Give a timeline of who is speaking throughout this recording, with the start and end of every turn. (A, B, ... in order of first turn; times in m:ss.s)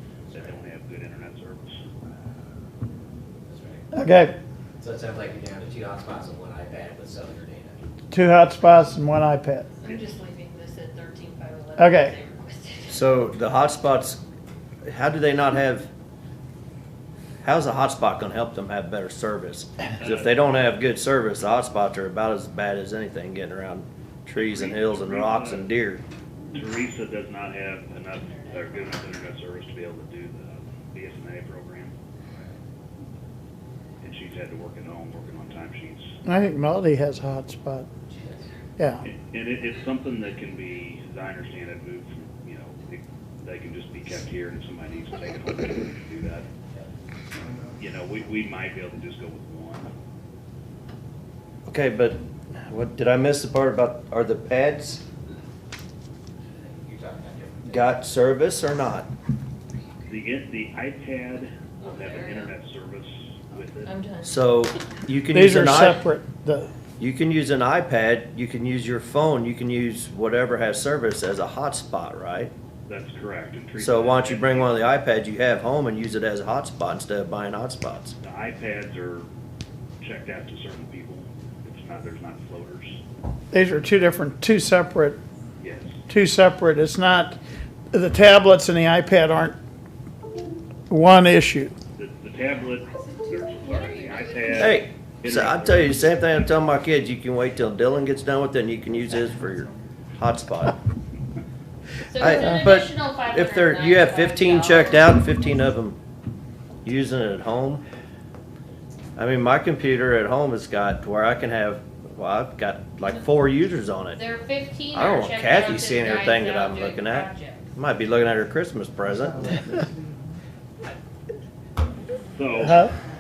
0:00.3-0:01.8 A
0:03.5-0:03.8 B
0:03.9-0:04.4 C
0:04.8-0:07.8 B
0:08.1-0:09.7 C
0:09.8-0:13.0 D
0:11.8-0:12.1 C
0:12.9-0:14.2 E
0:14.8-0:15.9 E
0:17.4-0:26.0 E
0:20.0-0:20.6 A
0:24.3-0:25.7 A
0:26.5-0:31.9 A
0:28.1-0:29.2 D
0:34.0-0:36.1 A
0:36.2-0:37.9 C
0:38.2-0:38.4 B
0:38.8-0:39.0 C
0:39.0-0:46.5 A
0:47.8-0:49.9 A
0:51.7-0:55.0 E
0:56.6-0:57.8 B
0:57.6-0:59.1 E
1:00.0-1:03.9 A
1:01.8-1:02.5 D
1:03.8-1:04.4 D
1:04.2-1:06.0 E
1:05.3-1:06.7 C
1:07.0-1:12.5 E
1:12.9-1:14.8 A
1:13.8-1:18.1 E
1:18.2-1:19.3 A
1:20.0-1:23.0 A
1:23.5-1:25.2 C
1:25.6-1:26.0 A
1:26.1-1:27.4 C
1:27.9-1:29.6 C
1:30.9-1:31.7 C
1:32.0-1:36.4 A
1:33.5-1:34.6 D
1:34.6-1:40.8 E
1:42.1-1:45.1 D
1:42.2-1:46.0 E
1:46.8-1:47.8 E
1:49.2-1:54.2 E
1:54.1-1:57.6 D
1:54.9-1:59.6 E
1:59.4-1:59.9 C
2:02.3-2:02.8 A
2:02.6-2:02.9 C